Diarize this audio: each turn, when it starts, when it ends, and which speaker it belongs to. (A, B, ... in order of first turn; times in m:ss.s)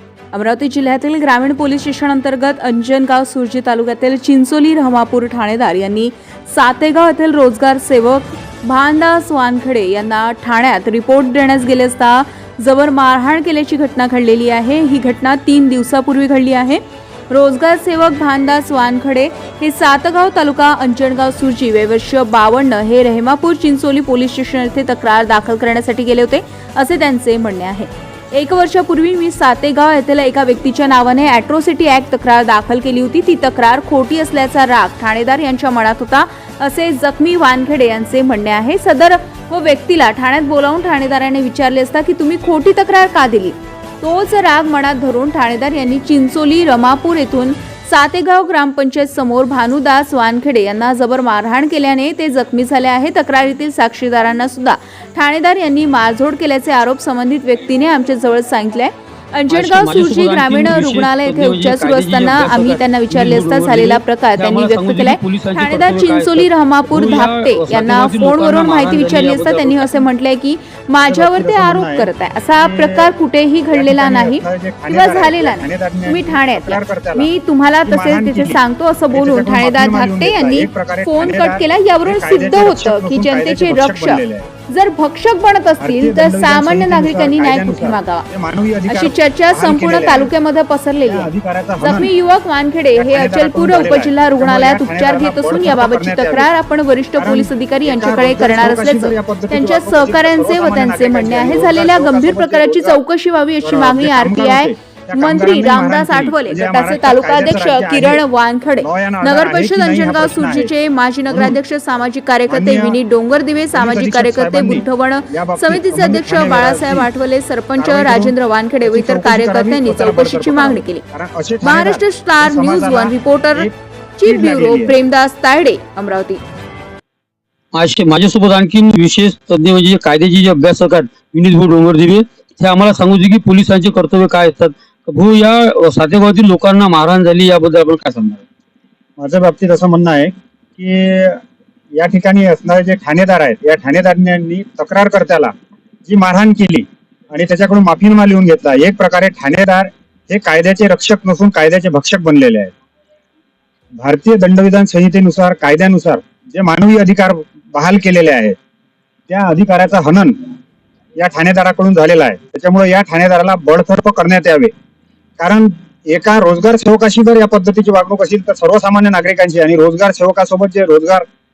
0:00.3-1:28.2 A
0:59.5-1:10.0 B
1:11.0-1:13.1 C
1:13.7-1:17.3 C
1:17.8-1:18.6 C
1:19.1-1:24.5 C
1:25.8-1:30.3 C
1:28.9-2:01.0 A
1:31.1-1:32.1 C
1:32.9-1:36.5 C
1:37.2-1:43.0 C
1:43.6-1:48.2 C
1:48.8-1:50.7 C
1:51.3-1:51.6 C
1:52.5-1:53.0 C
1:53.7-1:57.1 C
1:57.8-2:03.7 C
2:01.6-2:06.4 A
2:04.2-2:04.9 C
2:07.7-2:18.4 B
2:19.2-2:21.4 C
2:21.9-2:25.5 C
2:26.0-2:32.7 C
2:33.9-2:38.6 C
2:39.3-2:40.4 C
2:41.2-2:44.7 C
2:45.4-2:51.2 C